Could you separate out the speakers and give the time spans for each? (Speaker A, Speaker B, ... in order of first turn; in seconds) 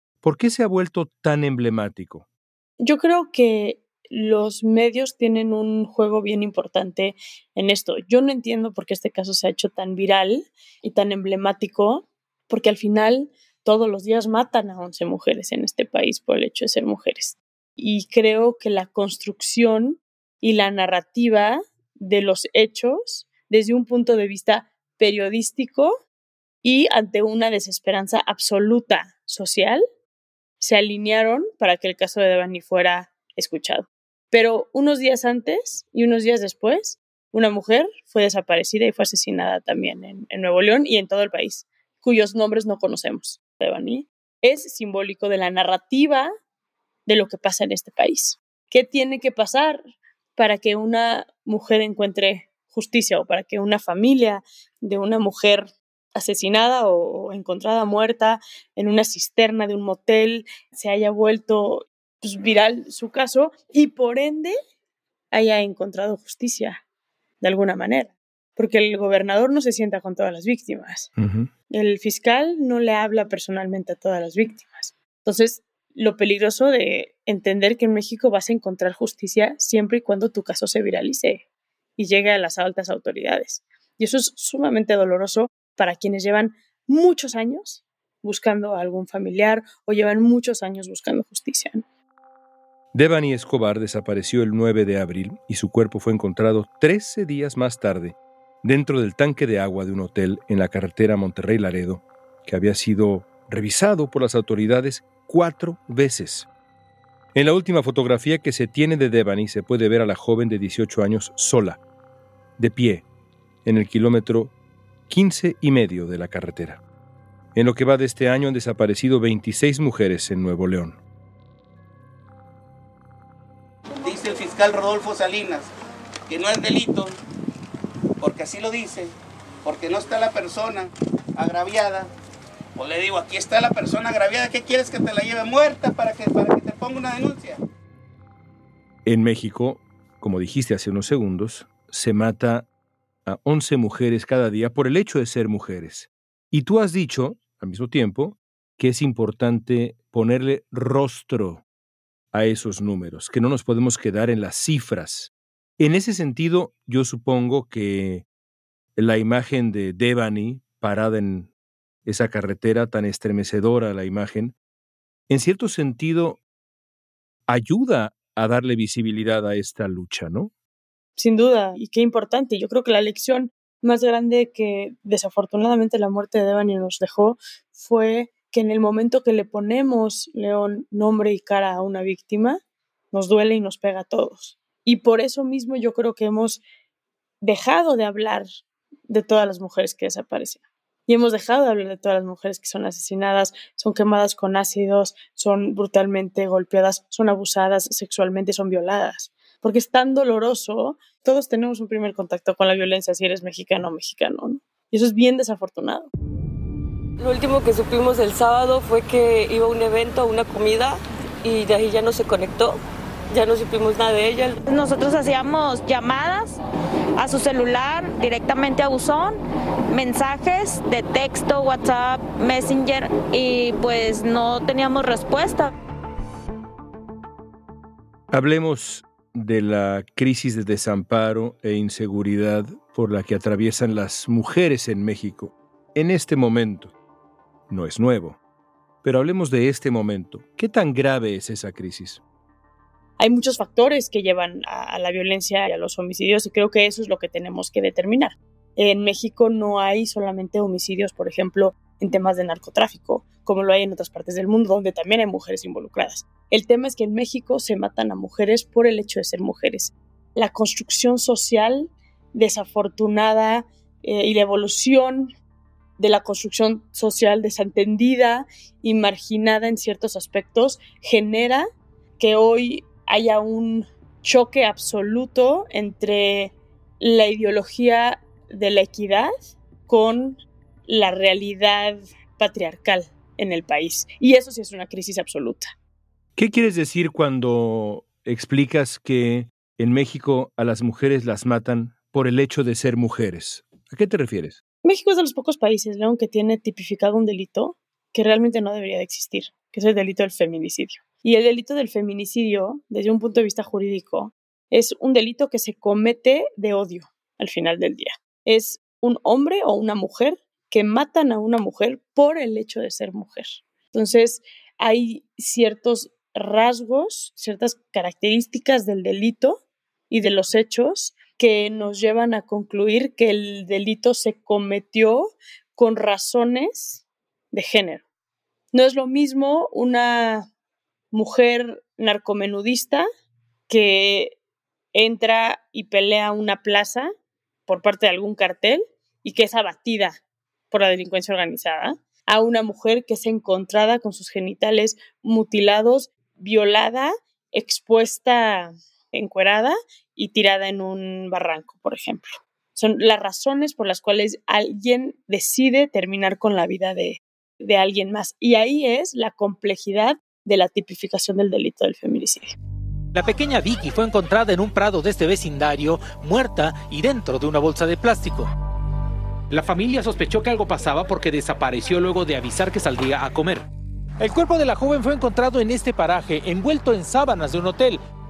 Speaker A: 0.2-2.2, 71.2-71.5, 92.9-106.5, 107.3-111.8, 112.6-113.0, 113.6-114.5, 115.1-116.8, 117.5-121.0, 139.0-142.7, 143.2-151.6, 152.3-158.2, 158.9-161.5, 162.0-164.5, 165.3-166.4, 167.5-170.5, 228.3-236.9, 237.7-238.4, 239.0-242.2, 286.4-294.6
Speaker B: 2.8-26.0, 26.6-29.8, 30.6-46.3, 47.1-49.8, 50.4-64.5, 65.3-66.8, 67.4-71.1, 71.7-81.4, 82.0-91.8, 171.2-182.6, 183.1-186.6, 187.4-188.5, 189.1-206.1, 243.2-265.3, 266.0-271.7, 272.2-279.3, 279.9-285.7, 294.8-328.0, 328.7-330.5, 331.1-333.1, 333.7-334.4, 334.9-337.1, 337.7-340.2, 340.7-362.5
Speaker C: 124.0-125.7, 126.3-127.1, 128.2-129.1, 129.6-132.1, 132.8-137.6
Speaker D: 207.2-212.8, 213.3-214.6
Speaker E: 214.6-216.6, 217.2-219.4, 219.9-225.7
Speaker F: 363.1-368.5, 369.5-373.6, 374.2-378.0